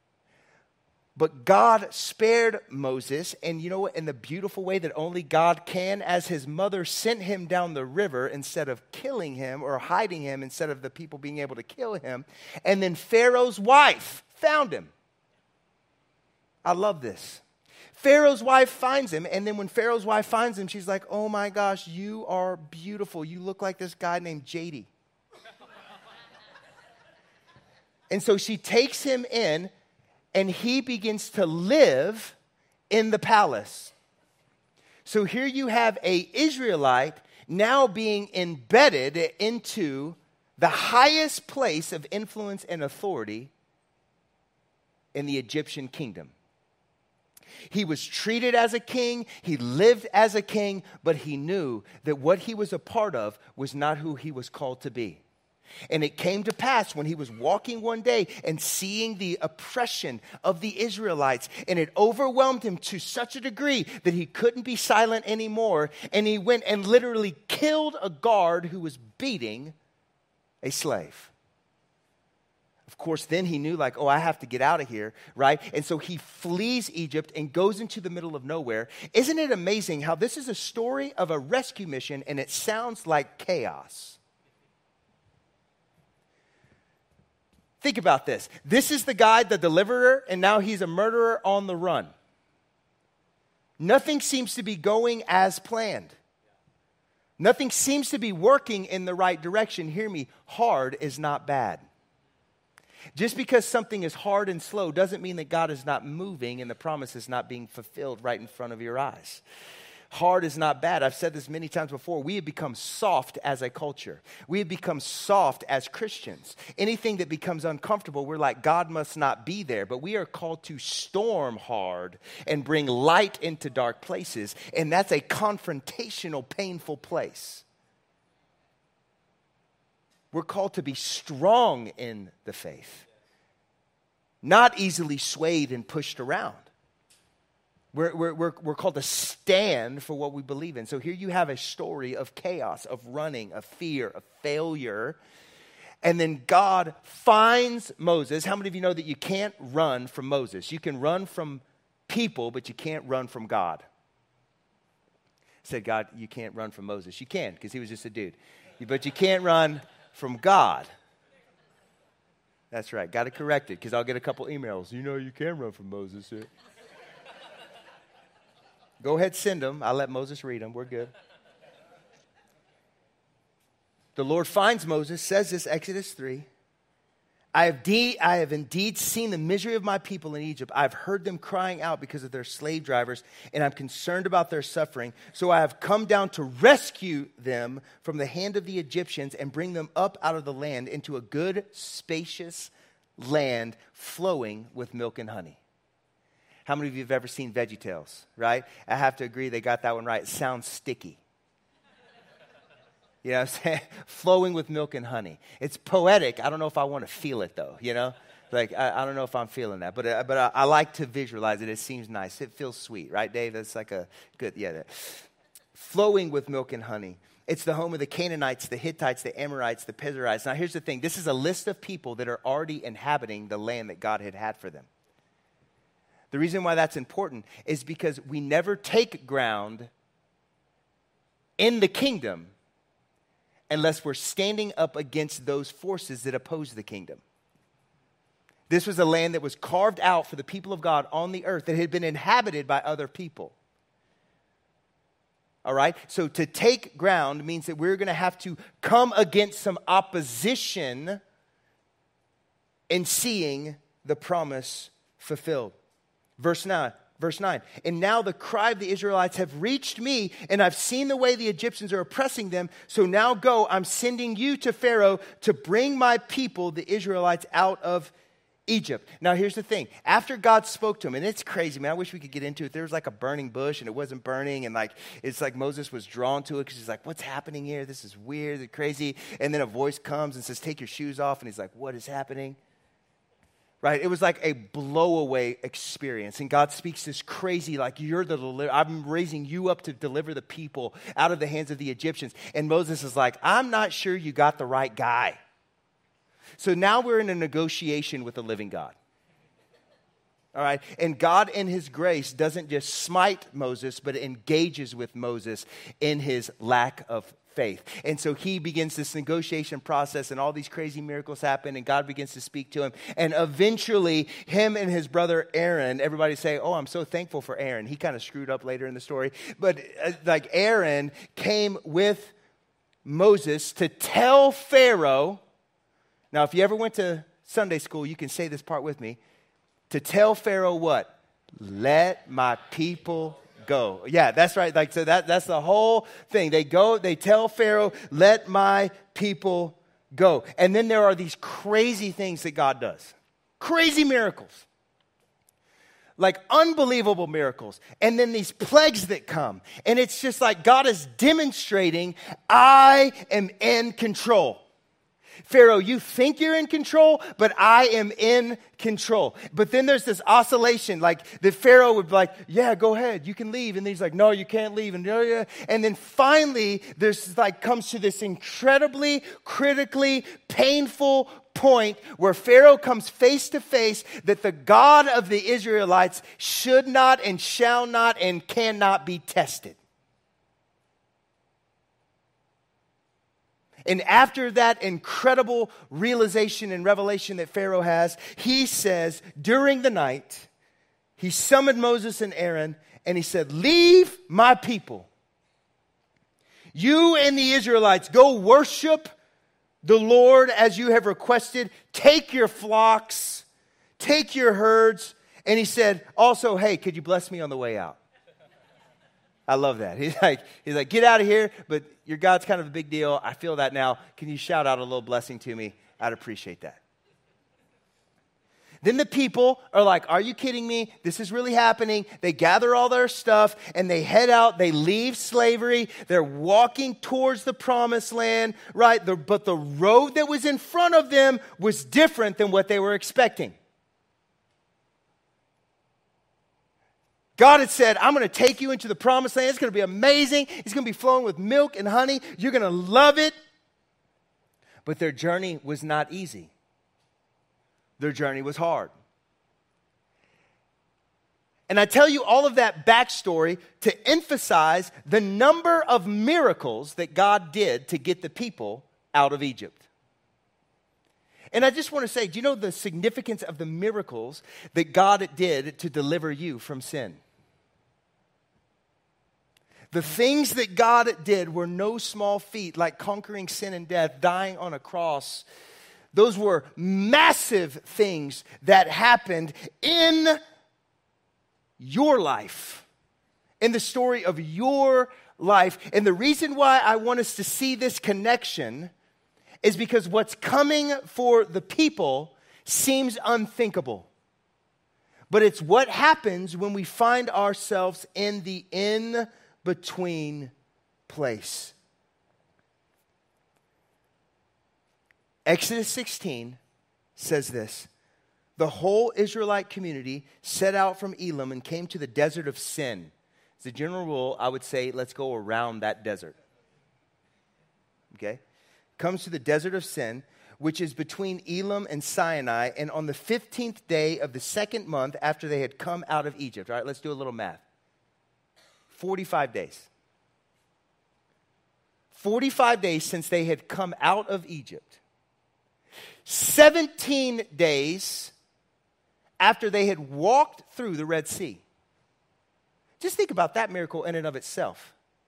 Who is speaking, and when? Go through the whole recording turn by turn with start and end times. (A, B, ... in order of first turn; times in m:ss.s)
0:01.2-0:14.9 A
0:16.6-0:17.4 A
0:17.9-0:24.9 A
0:28.1-0:29.7 A
0:30.3-0:32.4 A
0:32.9-0:33.9 A
0:35.1-0:43.5 A
0:45.1-0:46.3 A
0:47.7-0:55.2 A
0:55.9-1:09.8 A
1:10.6-1:11.3 A
1:12.9-1:24.2 A
1:27.8-1:32.1 A
1:33.8-1:36.2 A
1:37.4-1:41.8 A
1:43.2-1:49.4 A
1:50.1-2:07.6 A
2:10.3-2:13.0 A
2:14.4-2:16.7 A
2:17.9-2:25.2 A
2:26.0-2:33.8 A
2:35.6-2:40.9 A
2:42.7-2:46.5 A
2:49.0-2:51.1 A
2:54.2-2:56.5 A
2:57.5-3:15.6 A
3:16.7-3:21.2 A
3:23.2-3:44.9 A
3:46.3-3:49.9 A
3:51.6-3:52.5 A
3:53.7-3:57.2 A
3:58.7-4:03.6 A
4:05.6-4:11.2 A
4:12.9-4:15.8 A
4:16.4-4:28.1 A
4:28.7-4:42.6 A
4:43.8-4:55.4 A
4:56.6-4:59.0 A
5:00.6-5:22.3 A
5:23.0-5:25.4 A
5:26.3-5:29.2 A
5:29.9-5:44.7 A
5:46.2-5:54.6 A
5:55.4-6:19.8 A
6:23.9-6:30.5 A
6:31.2-6:35.1 A
6:36.7-6:39.1 A
6:39.8-6:43.5 A
6:44.0-6:48.0 A
6:49.5-6:56.8 A
6:58.8-7:13.6 A
7:17.4-7:23.4 A
7:24.8-7:26.5 A
7:28.0-7:28.9 A
7:31.7-7:39.9 A
7:41.5-7:47.2 A
7:49.9-7:55.5 A
7:56.1-8:00.4 A
8:01.8-8:02.9 A
8:03.6-8:08.9 A
8:09.6-8:14.1 A
8:15.3-8:20.5 A
8:21.1-8:21.8 A
8:25.5-8:26.6 A
8:27.2-8:27.9 A
8:28.6-8:36.3 A
8:38.1-8:38.4 A
8:39.0-8:47.6 A
8:48.9-8:49.9 A
8:52.1-8:55.0 A
8:56.2-8:58.3 A
8:59.4-9:01.6 A
9:03.0-9:04.9 A